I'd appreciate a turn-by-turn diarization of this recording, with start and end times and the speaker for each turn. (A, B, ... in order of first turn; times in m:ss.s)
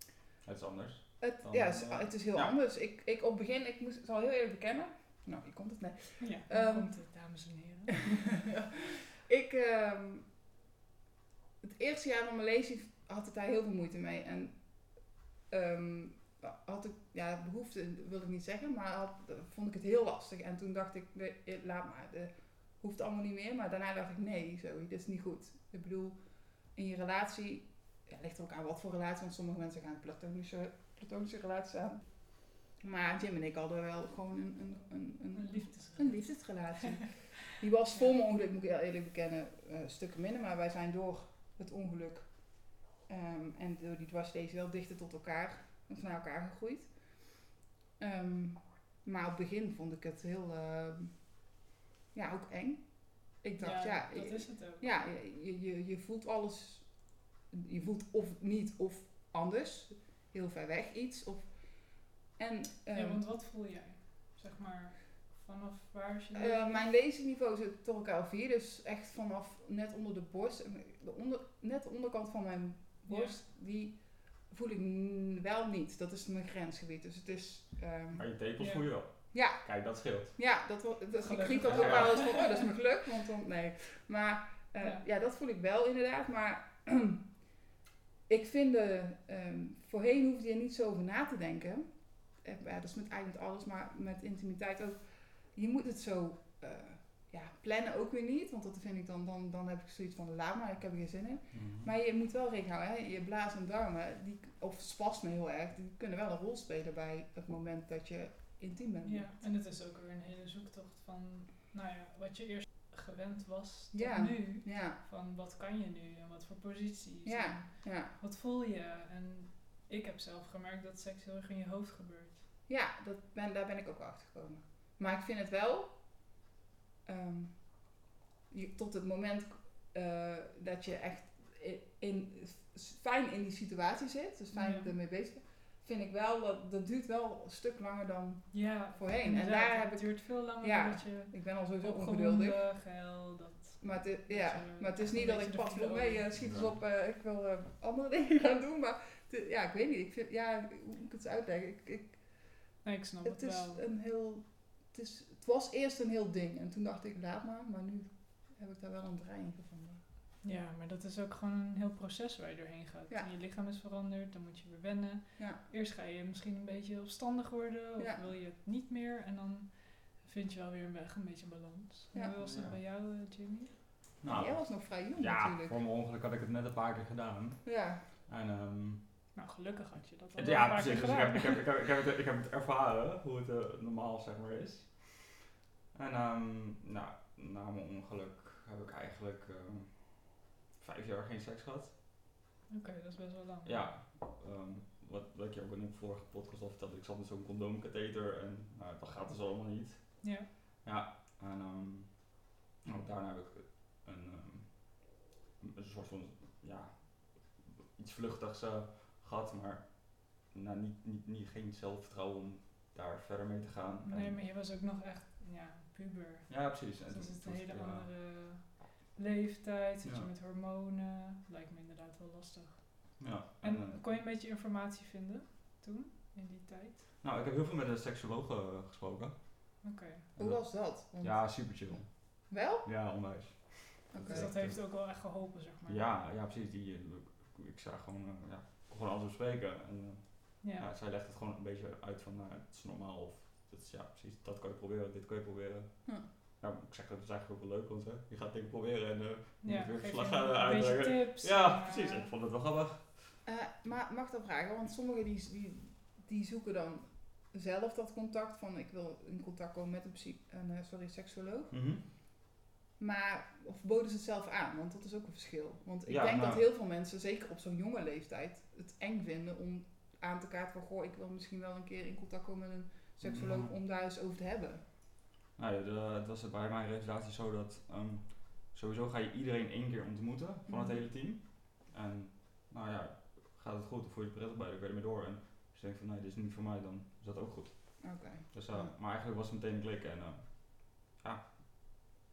0:00.4-0:02.5 A
0:01.2-0:06.9 B
0:06.2-0:08.4 C
0:08.0-0:10.3 B
0:11.6-0:26.2 B
0:26.7-0:32.0 B
0:32.8-0:42.4 B
0:35.3-0:36.3 C
0:36.8-0:37.1 C
0:43.0-0:46.9 B
0:48.0-0:51.2 B
0:52.1-0:56.9 B
0:53.6-0:54.9 C
0:57.5-1:03.2 B
1:02.9-1:06.9 C
1:06.3-1:18.2 B
1:13.0-1:13.4 C
1:18.1-1:20.3 A
1:18.6-1:18.9 C
1:19.3-1:19.6 B
1:20.3-1:27.2 B
1:21.2-1:22.7 C
1:21.6-1:22.2 A
1:28.3-1:49.4 B
1:41.5-1:41.9 A
1:49.0-2:02.4 C
1:53.9-1:55.0 B
1:57.2-1:58.1 B
2:02.7-2:06.0 B
2:07.0-2:07.7 B
2:08.5-2:22.6 B
2:14.5-2:14.9 C
2:18.5-2:26.3 C
2:23.8-2:32.2 B
2:26.4-2:26.7 A
2:32.8-2:33.8 C
2:33.2-2:40.0 B
2:40.4-2:53.7 C
2:48.0-2:48.2 B
2:52.4-2:52.8 A
2:54.2-2:57.7 A
2:54.3-2:55.8 B
2:57.6-2:58.0 B
2:58.3-2:59.0 A
2:59.3-3:01.6 C
3:00.4-3:05.2 A
3:05.9-3:11.9 A
3:12.7-3:13.9 C
3:13.6-3:34.4 A
3:20.2-3:20.5 C
3:34.0-3:47.0 C
3:36.5-3:38.1 A
3:43.2-3:44.0 A
3:47.2-3:49.6 A
3:49.8-3:50.3 C
3:50.4-3:51.6 B
3:50.4-3:54.8 A
3:52.5-3:52.9 B
3:54.1-3:54.5 B
3:54.2-3:56.0 C
3:55.8-4:13.2 A
4:00.6-4:00.9 C
4:09.6-4:12.3 C
4:13.4-4:21.7 B
4:21.7-4:22.0 A
4:23.0-4:34.8 B
4:26.0-4:26.6 A
4:33.2-4:33.7 A
4:35.6-4:51.5 A
4:40.7-4:41.0 B
4:48.0-4:48.9 B